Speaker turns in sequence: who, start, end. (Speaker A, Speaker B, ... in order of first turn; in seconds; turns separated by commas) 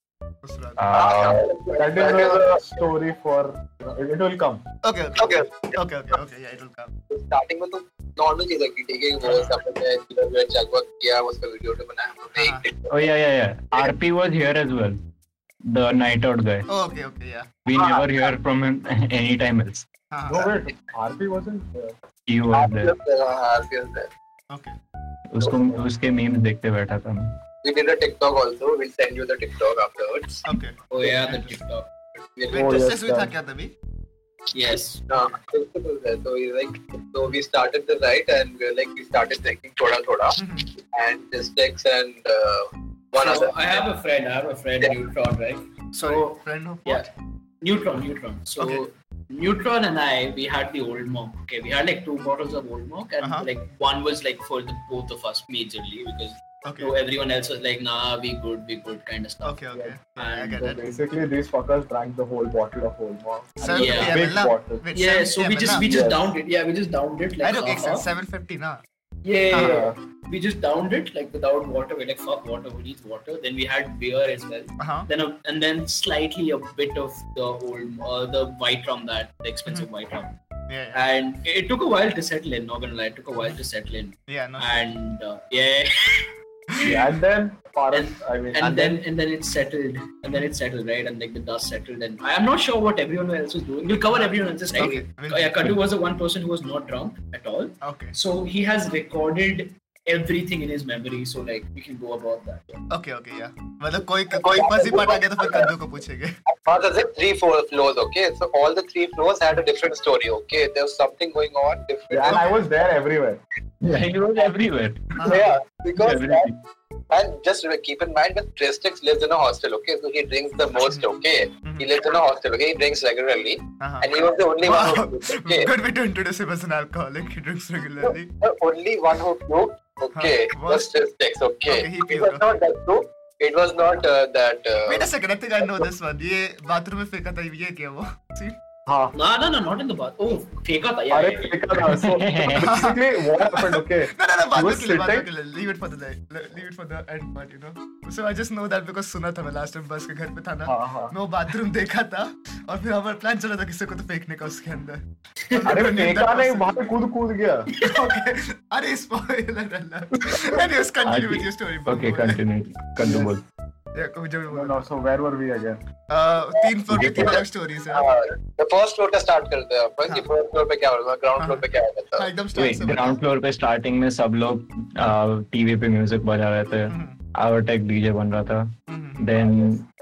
Speaker A: 0.4-1.3, Speaker B: 0.8-1.4, Speaker C: 0.9-2.8, Speaker D: 1.7-4.6, Speaker A: 4.8-6.9, Speaker C: 5.2-5.7, Speaker C: 7.1-13.0, Speaker A: 9.2-9.6, Speaker A: 12.3-12.6, Speaker B: 12.9-15.0, Speaker B: 15.7-16.7, Speaker A: 16.7-17.6, Speaker B: 17.6-19.9, Speaker C: 17.8-18.0, Speaker A: 20.1-20.5, Speaker D: 20.3-21.9, Speaker B: 22.3-22.9, Speaker C: 22.5-24.1, Speaker A: 24.5-24.8, Speaker B: 25.3-27.3, Speaker C: 27.6-30.4, Speaker A: 30.4-31.6, Speaker E: 30.9-31.9, Speaker C: 32.2-32.7, Speaker A: 32.5-33.7, Speaker D: 32.5-33.3, Speaker E: 34.5-35.0, Speaker C: 35.1-40.4, Speaker A: 40.4-40.7, Speaker C: 40.9-43.9, Speaker E: 43.2-47.1, Speaker A: 45.9-47.1, Speaker E: 47.6-60.7, Speaker A: 53.2-53.5, Speaker A: 56.6-56.9, Speaker A: 59.4-60.8, Speaker D: 60.6-64.8, Speaker A: 63.6-65.9, Speaker E: 63.6-64.2, Speaker E: 64.9-68.0, Speaker D: 65.6-66.2, Speaker A: 67.4-68.8, Speaker E: 69.2-80.3, Speaker A: 69.5-69.8, Speaker D: 69.5-69.9, Speaker A: 74.8-75.1, Speaker A: 80.7-81.0, Speaker E: 80.9-86.3, Speaker A: 84.3-84.8, Speaker D: 86.8-89.0, Speaker E: 87.9-102.8, Speaker A: 94.1-95.7, Speaker A: 97.8-98.1, Speaker A: 102.9-106.3, Speaker C: 104.3-105.7, Speaker C: 106.6-112.6, Speaker D: 112.1-113.4, Speaker A: 112.2-112.6, Speaker B: 113.8-115.4, Speaker A: 115.2-115.5, Speaker C: 115.2-116.5, Speaker B: 116.0-116.5, Speaker C: 117.1-125.7, Speaker A: 123.8-128.3, Speaker C: 128.4-135.1, Speaker A: 130.1-130.9, Speaker A: 131.7-132.4, Speaker A: 134.9-138.6, Speaker D: 138.9-139.1, Speaker E: 139.1-141.6, Speaker D: 141.1-145.2, Speaker B: 141.8-142.7, Speaker A: 142.6-156.8, Speaker D: 150.7-151.1, Speaker D: 155.6-157.8, Speaker A: 157.8-162.4, Speaker B: 161.0-163.4, Speaker D: 163.0-163.3, Speaker A: 163.9-164.8, Speaker D: 164.5-165.8, Speaker A: 166.1-168.1, Speaker B: 166.9-167.4, Speaker C: 167.9-172.3, Speaker A: 171.4-171.6, Speaker A: 172.2-173.2, Speaker B: 172.5-179.8, Speaker A: 176.9-177.2, Speaker A: 178.9-179.3, Speaker D: 179.4-179.8